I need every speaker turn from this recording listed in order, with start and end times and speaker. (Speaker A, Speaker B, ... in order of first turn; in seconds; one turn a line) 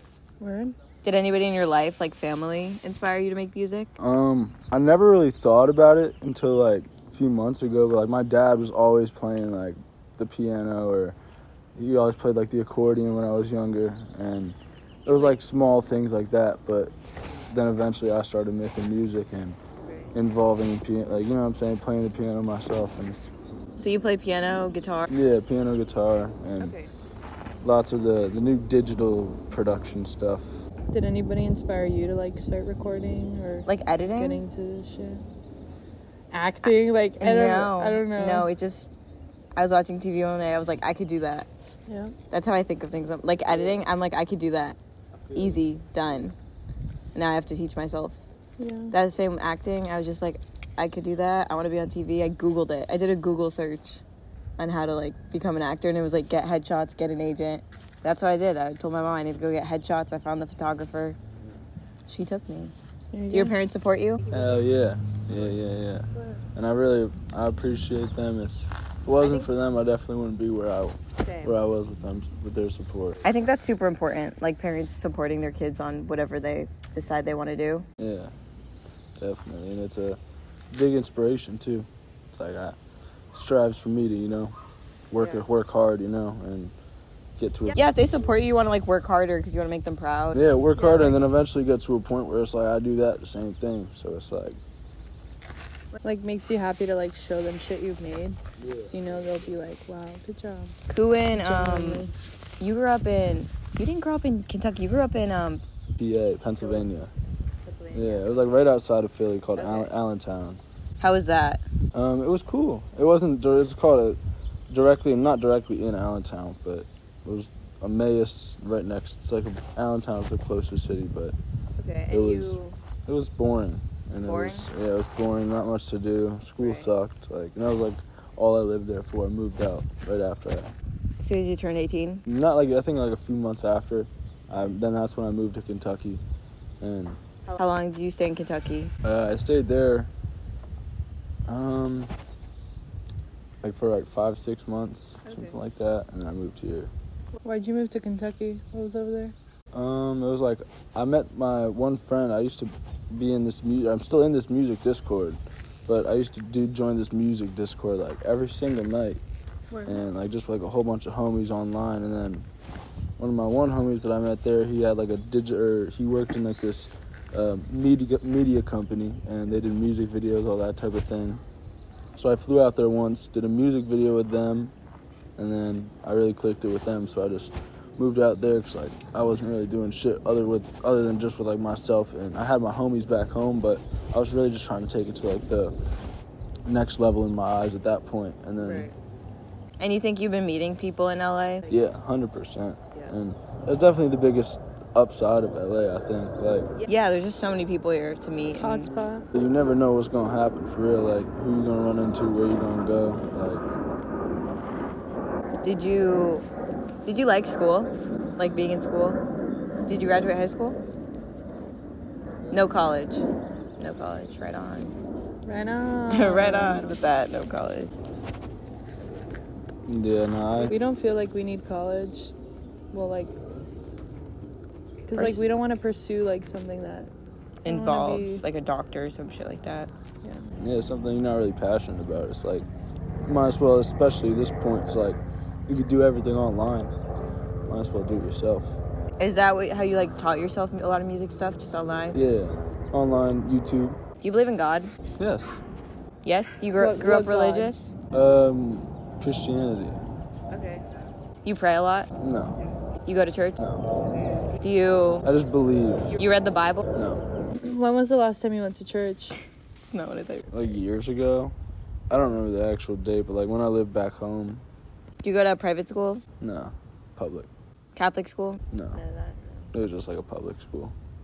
Speaker A: 0.4-0.8
Speaker B: 1.0-3.9
Speaker C: 4.0-11.2
Speaker C: 11.8-16.9
Speaker B: 15.1-15.4
Speaker C: 17.5-19.6
Speaker B: 19.8-20.1
Speaker C: 20.1-23.3
Speaker B: 23.8-25.1
Speaker C: 25.1-26.8
Speaker B: 26.6-26.9
Speaker C: 27.6-30.6
Speaker A: 30.9-35.2
Speaker B: 33.7-34.4
Speaker A: 36.3-38.5
Speaker B: 37.2-39.0
Speaker B: 39.6-41.5
Speaker A: 41.9-42.1
Speaker B: 42.3-44.8
Speaker C: 43.5-43.8
Speaker C: 45.1-46.2
Speaker B: 45.3-46.4
Speaker B: 47.1-48.2
Speaker A: 48.6-48.9
Speaker B: 48.9-54.0
Speaker B: 54.6-61.2
Speaker B: 62.1-62.7
Speaker A: 63.1-63.6
Speaker B: 63.3-64.2
Speaker C: 64.3-73.2
Speaker A: 66.0-66.4
Speaker B: 69.1-69.5
Speaker B: 71.2-71.5
Speaker B: 73.2-77.9
Speaker C: 78.0-78.3
Speaker C: 79.2-80.2
Speaker C: 80.7-82.8
Speaker C: 83.3-84.6
Speaker C: 85.1-86.7
Speaker B: 85.2-85.4
Speaker C: 87.4-87.8
Speaker B: 87.7-91.2
Speaker C: 90.3-94.6
Speaker A: 96.0-100.7
Speaker C: 98.6-99.5
Speaker B: 100.9-102.0
Speaker A: 101.3-102.1
Speaker B: 102.6-105.6
Speaker C: 106.0-107.1
Speaker B: 106.6-106.9
Speaker B: 107.7-108.5
Speaker C: 107.9-110.6
Speaker B: 109.6-109.9
Speaker B: 111.0-111.6
Speaker C: 111.9-114.2
Speaker C: 114.7-121.4
Speaker B: 121.8-122.8
Speaker C: 122.1-130.7
Speaker B: 124.2-124.7
Speaker B: 126.6-126.9
Speaker B: 131.2-132.2
Speaker C: 132.2-136.2
Speaker C: 136.8-137.2
Speaker B: 137.5-138.9
Speaker C: 139.0-140.1
Speaker C: 141.5-142.1
Speaker C: 143.6-146.9
Speaker B: 145.2-145.6
Speaker A: 147.4-149.3
Speaker C: 149.7-159.2
Speaker A: 159.7-160.0
Speaker C: 159.8-162.5
Speaker C: 163.2-171.4
Speaker C: 172.2-174.7
Speaker C: 175.4-185.7
Speaker C: 186.7-188.9
Speaker B: 188.6-188.9
Speaker B: 189.8-191.7
Speaker C: 191.7-196.7
Speaker B: 196.8-198.9
Speaker A: 198.6-199.3
Speaker C: 199.3-203.6
Speaker B: 205.6-206.4
Speaker B: 207.1-209.2
Speaker B: 209.9-210.8
Speaker B: 212.5-213.2
Speaker B: 213.8-214.9
Speaker A: 215.5-216.9
Speaker B: 216.1-217.9
Speaker C: 219.9-220.8
Speaker A: 220.6-222.3
Speaker A: 222.9-223.4
Speaker A: 225.1-227.1
Speaker B: 225.1-225.4
Speaker B: 227.6-229.9
Speaker A: 227.7-228.4
Speaker A: 230.2-230.5
Speaker C: 230.6-232.7
Speaker C: 233.2-236.9
Speaker C: 237.7-238.8
Speaker B: 239.2-242.2
Speaker C: 242.1-244.0
Speaker B: 244.2-244.9
Speaker C: 245.2-245.6
Speaker B: 246.2-247.9
Speaker A: 246.8-247.7
Speaker C: 248.1-250.0
Speaker B: 250.5-250.8
Speaker B: 251.4-252.1
Speaker C: 252.2-252.6
Speaker B: 253.1-253.6
Speaker C: 253.6-253.8
Speaker B: 254.6-255.3
Speaker C: 255.2-256.2
Speaker B: 256.1-256.9
Speaker C: 256.9-257.2
Speaker A: 257.6-259.4
Speaker B: 259.9-260.8
Speaker C: 260.5-261.6
Speaker C: 262.1-264.6
Speaker B: 265.2-266.2
Speaker C: 266.4-267.5
Speaker B: 267.9-269.7
Speaker C: 268.7-269.0
Speaker C: 269.7-270.9